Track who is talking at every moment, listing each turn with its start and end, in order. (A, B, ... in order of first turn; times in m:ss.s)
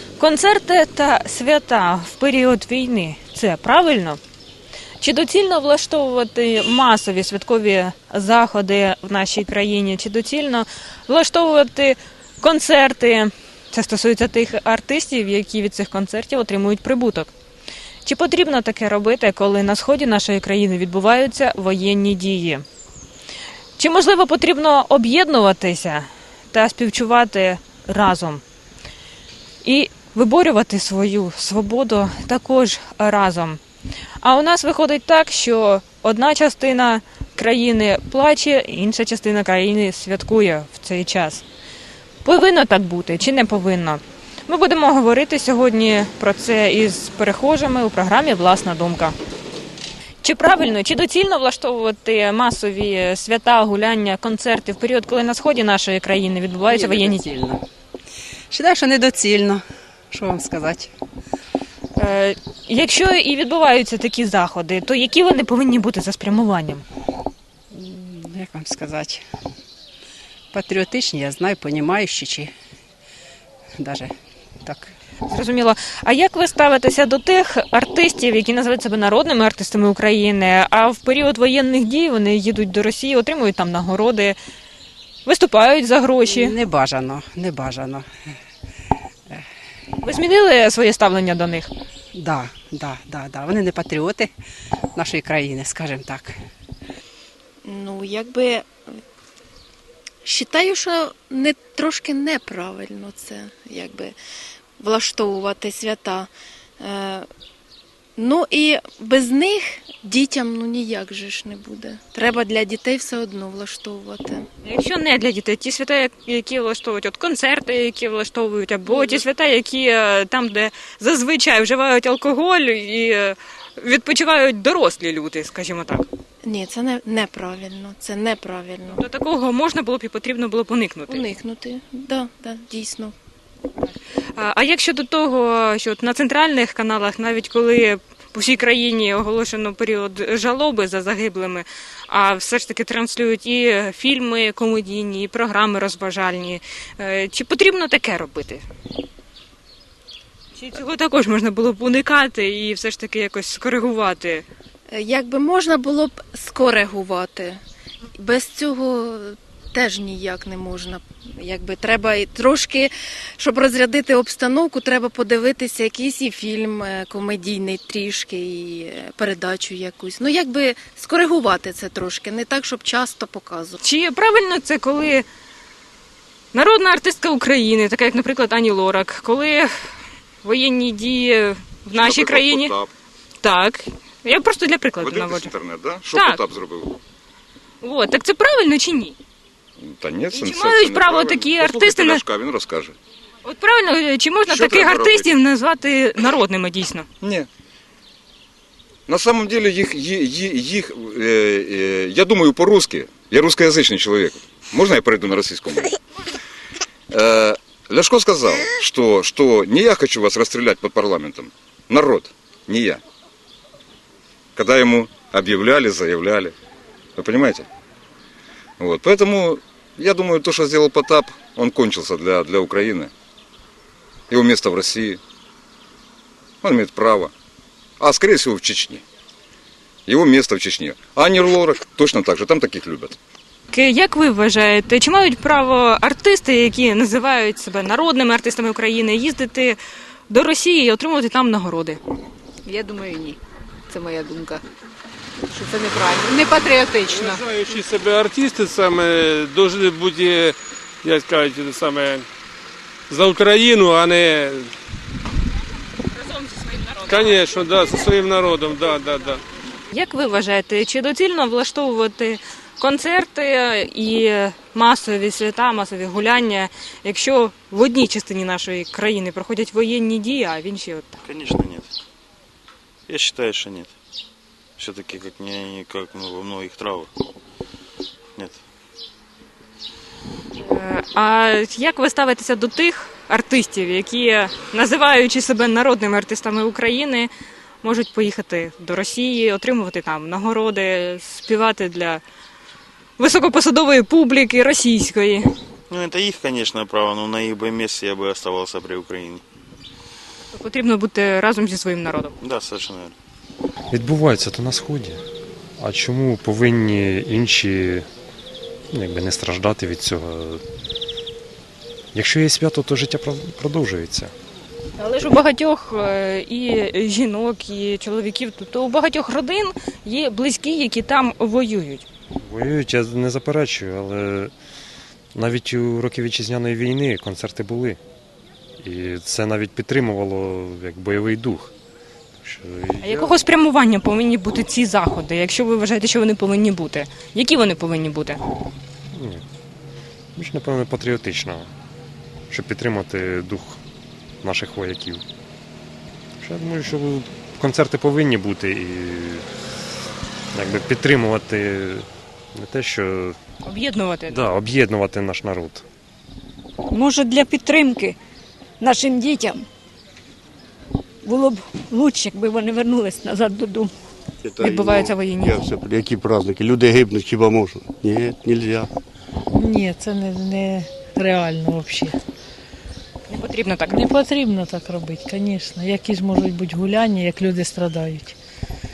0:00.2-0:04.2 A
0:05.0-0:17.3 A
0:18.0-0:22.6 A
0:23.8-0:28.4 A
0:29.6-0:33.6 A
0:34.2-0:41.4 A
0:42.2-0:49.2 A
0:50.2-0:57.3 A
0:56.7-0:57.6 B
0:58.5-1:00.9 B
1:02.0-1:06.8 A
1:07.7-1:09.2 B
1:10.5-1:12.5 B
1:13.8-1:14.1 B
1:14.6-1:14.9 B
1:15.3-1:24.4 A
1:25.2-1:26.5 A
1:26.2-1:28.1 B
1:30.0-1:31.7 A
1:32.1-1:34.3 B
1:34.9-1:36.4 B
1:37.6-1:38.9 C
1:40.2-1:44.1 C
1:44.8-1:47.2 C
1:48.2-1:54.5 C
1:54.6-2:06.0 A
1:58.9-1:59.2 C
2:06.4-2:09.0 C
2:09.0-2:11.2 A
2:11.1-2:13.1 C
2:14.4-2:28.6 A
2:30.6-2:34.4 A
2:34.9-2:37.6 C
2:38.2-2:53.8 C
2:53.8-2:55.2 A
2:56.5-2:59.7 A
3:00.4-3:02.7 A
3:01.9-3:02.9 D
3:03.4-3:05.5 A
3:05.0-3:07.0 D
3:06.1-3:06.4 A
3:07.8-3:09.2 A
3:09.8-3:12.9 D
3:10.3-3:12.2 A
3:13.4-3:17.1 A
3:14.5-3:15.3 D
3:17.2-3:17.5 D
3:19.1-3:26.0 D
3:27.1-3:33.0 D
3:34.6-3:36.5 D
3:37.2-3:37.7 D
3:38.8-3:43.1 D
3:44.3-3:45.2 D
3:46.6-3:47.3 D
3:48.0-3:49.0 D
3:50.1-3:53.2 D
3:53.7-3:59.8 A
4:00.3-4:02.0 A
4:02.6-4:03.4 E
4:03.9-4:04.6 E
4:05.5-4:07.7 E
4:07.1-4:12.2 F
4:13.1-4:14.6 F
4:17.1-4:19.4 F
4:19.9-4:31.1 A
4:31.2-4:31.9 G
4:33.1-4:33.9 G
4:34.8-4:37.1 G
4:40.6-4:47.3 A
4:47.8-4:52.2 A
4:53.2-4:55.5 A
4:55.9-4:59.4 G
5:00.5-5:02.4 A
5:02.4-5:03.1 G
5:03.9-5:05.2 H
5:05.8-5:08.1 H
5:08.9-5:10.6 H
5:12.1-5:14.3 H
5:15.0-5:22.0 A
5:22.4-5:24.5 H
5:25.3-5:28.0 H
5:28.8-5:31.7 H
5:32.4-5:33.3 H
5:33.0-5:38.4 A
5:39.1-5:39.4 H
5:40.4-5:41.7 H
5:42.5-5:43.8 H
5:44.4-5:45.2 H
5:46.4-5:49.4 H
5:50.5-5:53.4 H
5:53.6-5:54.4 A
5:54.3-5:55.8 H
5:56.9-5:58.2 I
5:58.8-5:59.6 I
6:01.2-6:03.9 I
6:04.4-6:08.9 J
6:04.6-6:05.6 A
6:09.5-6:12.2 K
6:13.3-6:14.1 A
6:13.9-6:18.3 K